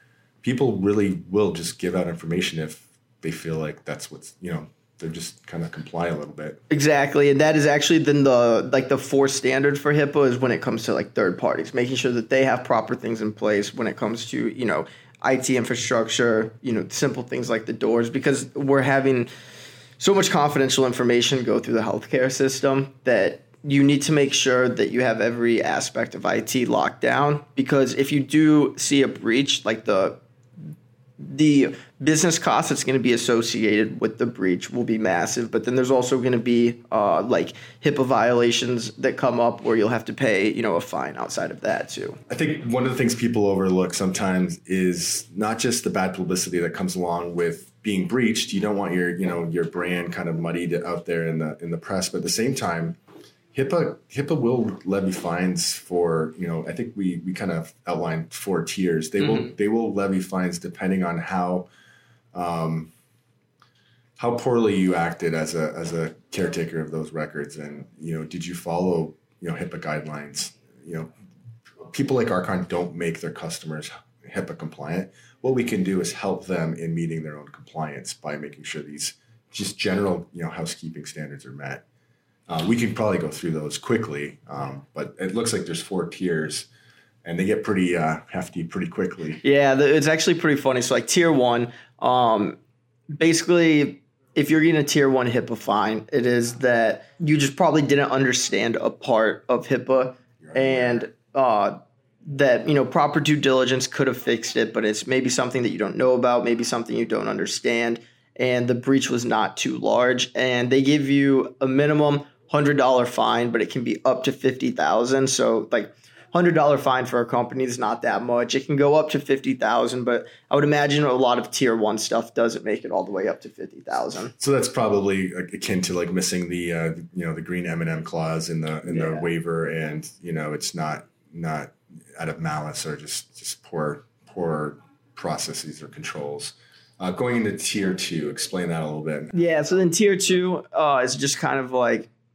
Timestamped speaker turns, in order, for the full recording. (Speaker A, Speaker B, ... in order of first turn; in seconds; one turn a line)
Speaker A: 0.4-6.6
Speaker B: 6.7-19.3
Speaker B: 20.0-30.2
Speaker B: 31.2-42.2
Speaker A: 42.3-53.0
Speaker A: 53.5-61.7
Speaker B: 59.2-59.5
Speaker A: 62.3-62.9
Speaker A: 64.2-71.1
Speaker A: 71.9-81.8
Speaker A: 82.5-86.7
Speaker A: 87.2-89.4
Speaker B: 89.4-92.5
Speaker B: 93.1-124.3
Speaker A: 100.4-101.0
Speaker A: 124.4-139.5
Speaker B: 128.8-129.3
Speaker B: 139.3-142.1